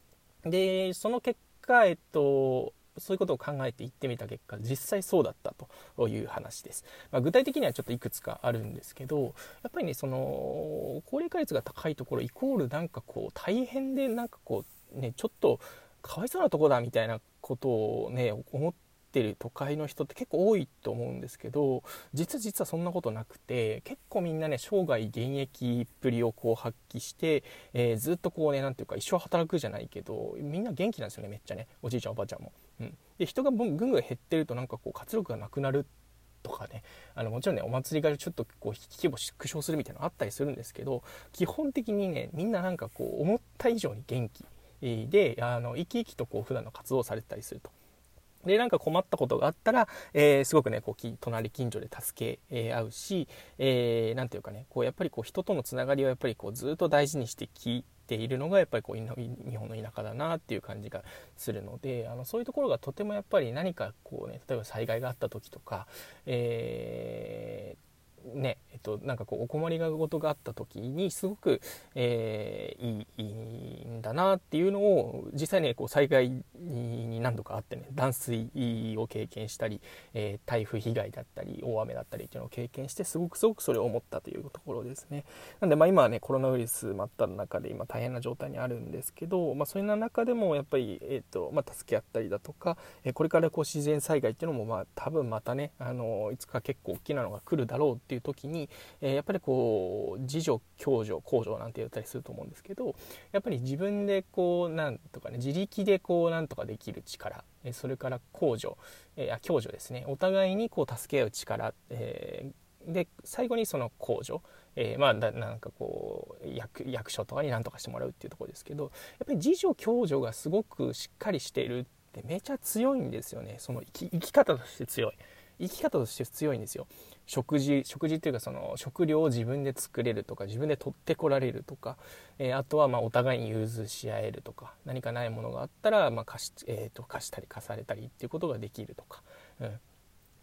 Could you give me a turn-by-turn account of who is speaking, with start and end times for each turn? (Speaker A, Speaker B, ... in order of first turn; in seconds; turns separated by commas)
Speaker A: 0.4-35.9, Speaker A: 36.4-47.7, Speaker A: 48.4-139.8